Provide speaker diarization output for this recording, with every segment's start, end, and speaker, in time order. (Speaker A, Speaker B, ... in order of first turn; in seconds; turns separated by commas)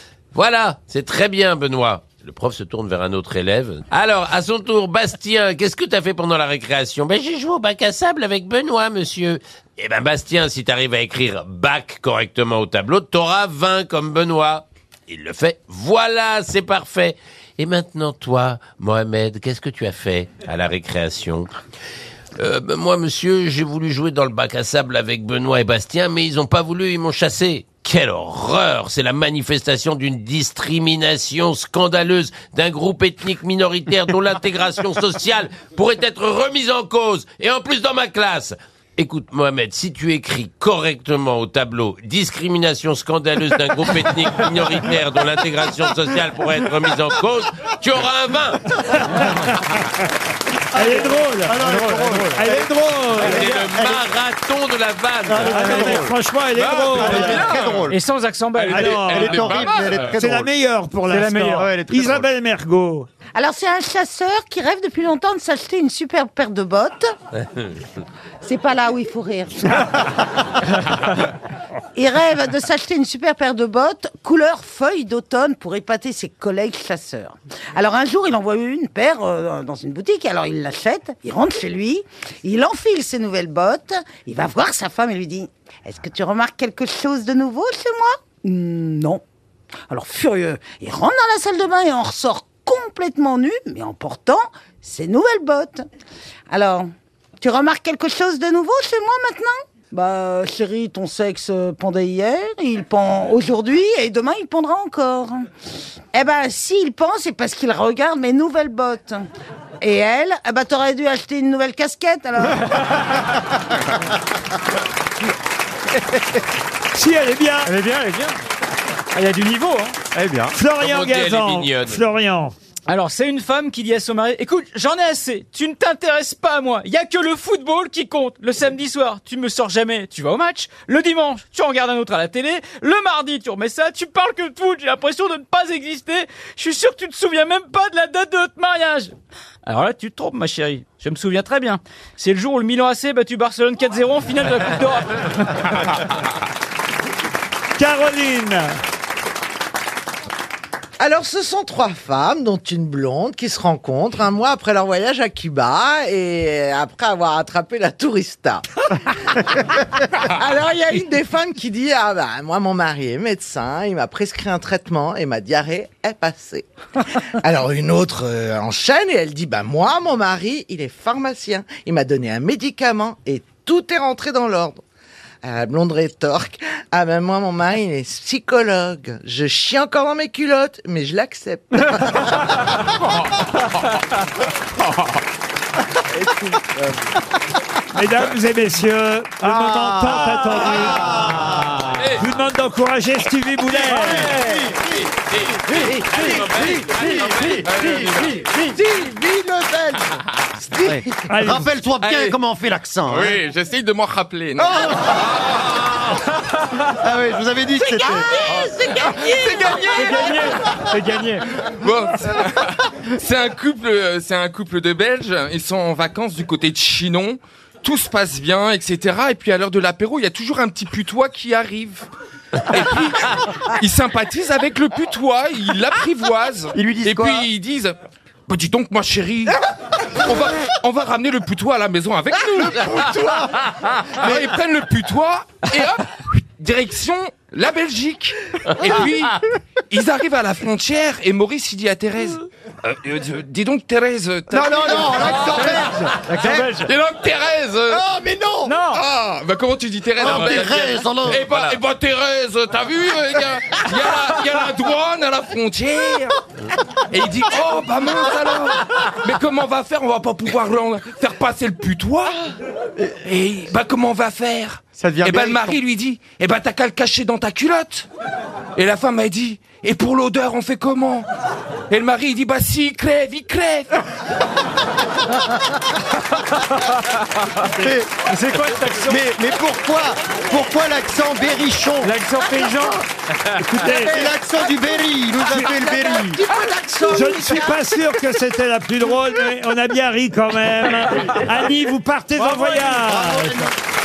Speaker A: 0.3-21.5, Speaker A: 22.4-48.9, Speaker B: 48.9-49.8, Speaker B: 50.7-53.5, Speaker C: 50.8-54.1, Speaker D: 51.6-52.5, Speaker A: 53.2-55.6, Speaker D: 53.4-53.7, Speaker C: 55.3-56.1, Speaker B: 55.4-57.5, Speaker D: 55.5-56.0, Speaker E: 56.5-57.9, Speaker C: 57.0-58.0, Speaker D: 57.0-59.4, Speaker E: 58.5-60.2, Speaker B: 58.7-59.3, Speaker C: 58.9-60.5, Speaker B: 60.1-63.1, Speaker D: 61.1-61.7, Speaker C: 61.6-62.3, Speaker F: 63.4-67.1, Speaker F: 68.4-70.0, Speaker F: 72.0-89.2, Speaker F: 89.9-95.8, Speaker F: 96.5-105.5, Speaker F: 106.1-109.3, Speaker F: 109.8-112.9, Speaker B: 116.9-117.7, Speaker D: 117.7-118.4, Speaker D: 119.1-120.0, Speaker C: 120.2-120.5, Speaker B: 120.5-122.6, Speaker A: 120.8-122.0, Speaker D: 122.9-139.1, Speaker D: 139.7-145.9, Speaker B: 147.8-148.8, Speaker G: 151.0-158.7, Speaker G: 159.4-159.7, Speaker G: 160.2-166.7, Speaker G: 167.4-174.8, Speaker G: 175.4-182.6, Speaker B: 187.9-194.4, Speaker C: 189.4-191.8, Speaker C: 193.7-195.2, Speaker D: 193.9-194.7, Speaker E: 194.8-195.7, Speaker A: 195.6-197.5, Speaker D: 195.8-196.5, Speaker G: 196.0-196.9, Speaker C: 196.4-198.7, Speaker E: 196.5-198.5, Speaker G: 198.7-200.0, Speaker G: 200.6-201.0, Speaker C: 200.8-203.4, Speaker B: 201.3-201.7, Speaker E: 202.0-202.4, Speaker E: 203.1-205.6, Speaker C: 204.6-205.4, Speaker C: 207.0-208.3, Speaker E: 208.5-210.8, Speaker D: 209.9-211.5, Speaker E: 211.6-222.1, Speaker E: 222.7-228.0, Speaker C: 226.8-227.5, Speaker E: 228.5-239.4, Speaker C: 232.8-233.5, Speaker C: 234.2-234.5, Speaker E: 239.9-246.2, Speaker C: 244.5-246.8, Speaker D: 245.5-246.9, Speaker E: 246.8-248.3, Speaker C: 248.0-248.8, Speaker D: 248.6-249.1, Speaker E: 248.9-256.4, Speaker C: 250.2-251.8, Speaker E: 257.1-268.1, Speaker C: 265.0-265.8, Speaker E: 268.8-271.3, Speaker E: 271.9-274.0, Speaker D: 276.7-277.0, Speaker C: 277.7-278.2, Speaker D: 278.2-279.2, Speaker C: 279.1-282.2, Speaker D: 282.0-283.0, Speaker G: 282.4-282.9, Speaker B: 283.6-284.1, Speaker G: 283.9-288.1, Speaker C: 284.1-286.4, Speaker B: 285.4-285.8, Speaker B: 287.1-293.7, Speaker C: 292.4-293.7